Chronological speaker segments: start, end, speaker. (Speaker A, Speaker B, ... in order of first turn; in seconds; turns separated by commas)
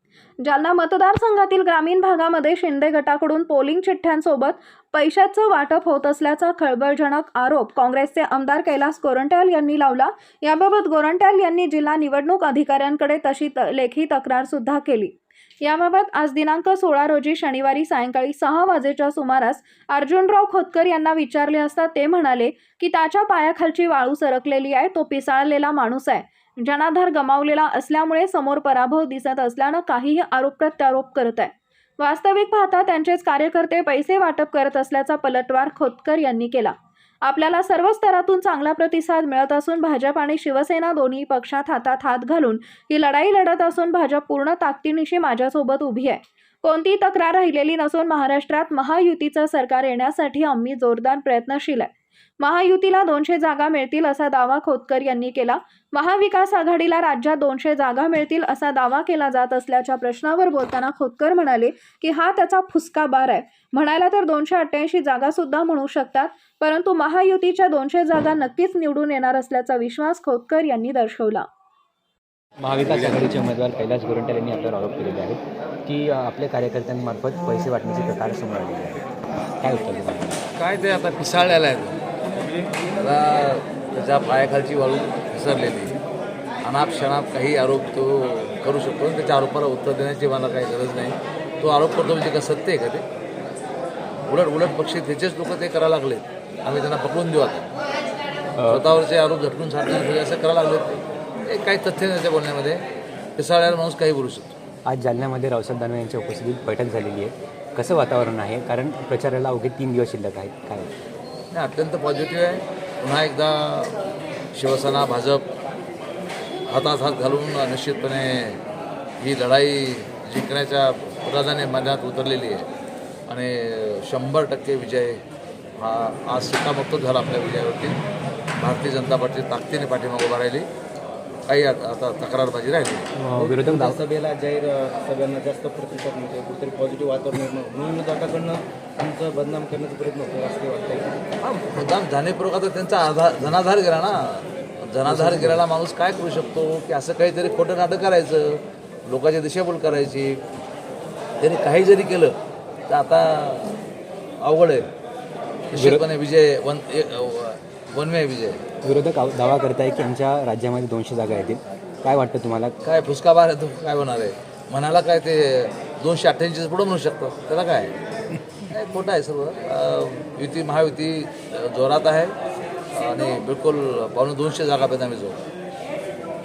Speaker A: 0.4-71.5, Speaker B: 72.6-79.0, Speaker C: 72.8-73.2, Speaker B: 79.6-80.4, Speaker C: 80.6-82.0, Speaker C: 83.0-86.0, Speaker C: 86.6-93.0, Speaker C: 94.3-97.7, Speaker B: 98.6-98.8, Speaker C: 98.7-102.8, Speaker C: 103.4-104.5, Speaker B: 104.9-110.9, Speaker C: 111.5-113.9, Speaker C: 114.5-115.4, Speaker C: 116.7-118.6, Speaker C: 119.2-122.7, Speaker C: 123.3-125.2, Speaker C: 125.8-128.0, Speaker C: 128.6-130.7, Speaker C: 131.5-133.1, Speaker B: 133.2-134.0, Speaker D: 133.3-141.2, Speaker C: 141.4-150.4, Speaker C: 151.4-152.4, Speaker C: 152.9-153.7, Speaker C: 154.4-154.9, Speaker C: 155.7-158.6, Speaker B: 155.7-156.0, Speaker B: 158.8-162.8, Speaker C: 162.8-167.9, Speaker C: 168.7-172.3, Speaker C: 172.9-175.4